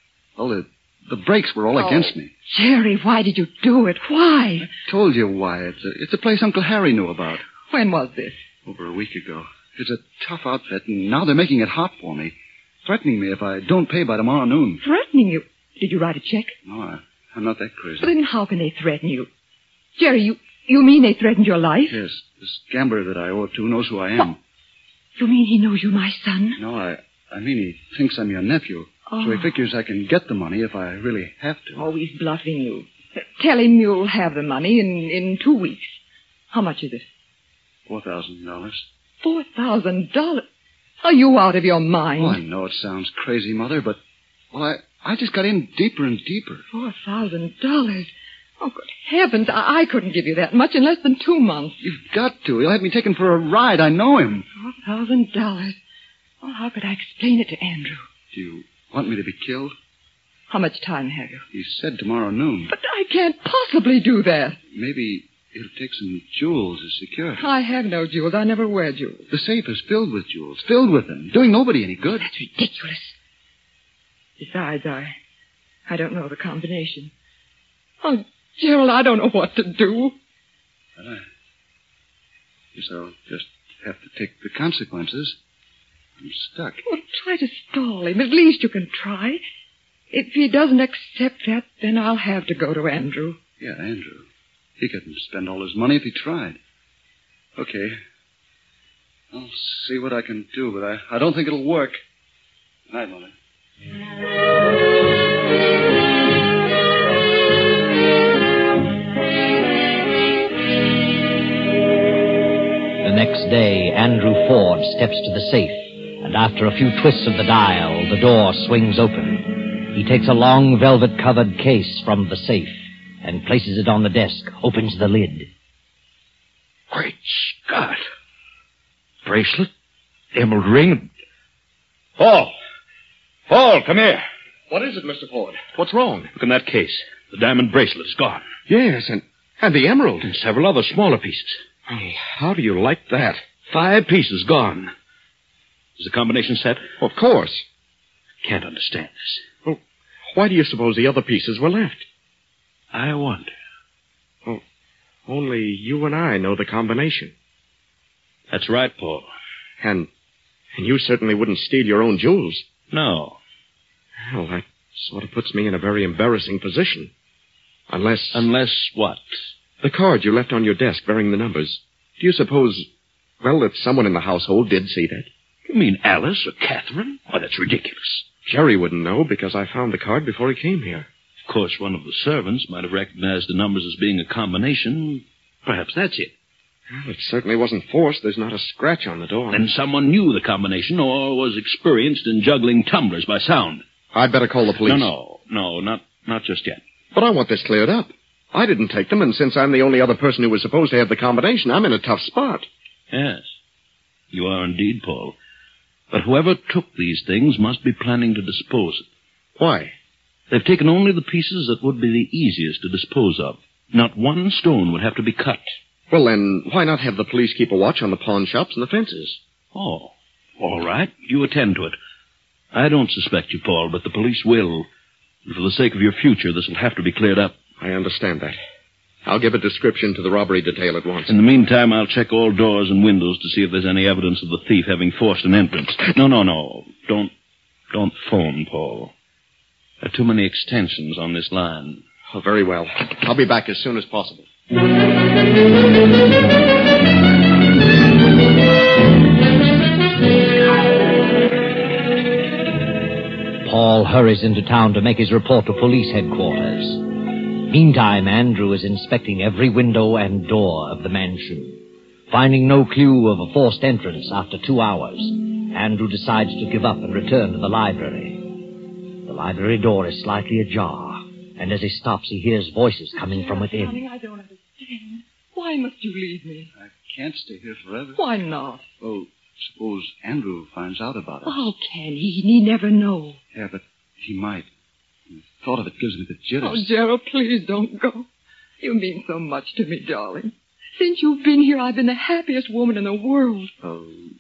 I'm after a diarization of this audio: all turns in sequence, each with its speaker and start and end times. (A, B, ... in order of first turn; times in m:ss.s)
0:00.4-0:02.3 A
0:01.8-0:04.7 B
0:04.8-0:07.4 A
0:07.7-0:08.4 B
0:08.6-0:14.8 A
0:14.8-0:16.6 B
0:16.6-0:18.1 A
0:18.0-0:19.3 B
0:20.0-0:22.0 B
0:21.9-0:24.4 A
0:25.2-0:26.6 B
0:26.6-0:31.8 A
0:29.1-0:29.6 B
0:31.8-0:36.0 B
0:36.5-0:37.1 B
0:37.9-0:38.8 A
0:39.2-0:40.4 B
0:41.0-0:42.4 B
0:42.2-0:44.0 A
0:44.5-0:46.6 A
0:46.7-0:51.8 B
0:51.8-0:54.5 A
0:54.6-0:55.8 B
0:56.4-0:58.0 B
0:58.3-0:59.7 A
1:00.5-1:01.4 B
1:01.5-1:02.7 A
1:02.7-1:04.6 B
1:04.7-1:07.4 A
1:07.4-1:09.3 B
1:09.3-1:12.3 A
1:12.2-1:13.2 B
1:14.4-1:15.2 B
1:15.9-1:17.1 B
1:18.0-1:20.2 B
1:21.0-1:21.2 A
1:22.8-1:25.4 A
1:26.2-1:26.8 A
1:26.9-1:29.4 B
1:30.1-1:33.4 B
1:33.6-1:34.3 A
1:34.8-1:36.6 A
1:37.6-1:38.0 A
1:39.3-1:42.0 A
1:42.9-1:43.3 A
1:53.0-2:05.5 C
2:06.9-2:08.0 D
2:09.2-2:09.7 D
2:10.3-2:11.1 D
2:12.2-2:12.5 D
2:13.5-2:14.2 D
2:14.7-2:16.3 E
2:16.4-2:18.4 D
2:18.7-2:20.3 E
2:20.2-2:21.6 D
2:21.9-2:23.4 E
2:23.7-2:24.9 D
2:26.0-2:26.8 D
2:27.0-2:27.7 E
2:28.4-2:29.4 D
2:30.3-2:32.0 E
2:32.9-2:33.5 D
2:35.3-2:37.3 E
2:38.5-2:39.3 D
2:39.8-2:40.1 E
2:40.8-2:42.6 E
2:42.9-2:43.4 D
2:44.2-2:47.1 E
2:47.9-2:48.5 E
2:48.3-2:49.2 D
2:49.8-2:52.9 E
2:53.4-2:55.3 E
2:55.7-2:58.2 D
2:58.5-3:01.1 E
3:01.5-3:06.3 D
3:06.9-3:09.6 E
3:09.5-3:13.8 D
3:14.1-3:15.1 E
3:14.8-3:16.8 D
3:17.1-3:22.7 E
3:23.1-3:23.6 D
3:24.3-3:25.4 D
3:26.1-3:29.1 D
3:29.6-3:29.9 E
3:30.5-3:35.6 D
3:36.1-3:39.4 E
3:39.7-3:42.0 D
3:42.7-3:44.9 D
3:45.5-3:47.6 D
3:47.8-3:48.6 E
3:49.2-3:51.3 E
3:51.3-3:57.3 D
3:57.9-3:59.1 D
4:00.0-4:02.0 D
4:02.3-4:04.5 E
4:13.6-4:28.5 C
4:29.2-4:34.0 C
4:33.1-4:36.7 B
4:36.8-4:38.2 A
4:38.2-4:38.9 B
4:39.0-4:41.7 A
4:41.5-4:43.4 B
4:43.5-4:44.7 A
4:45.3-4:46.9 A
4:46.6-4:48.3 B
4:48.8-4:53.7 B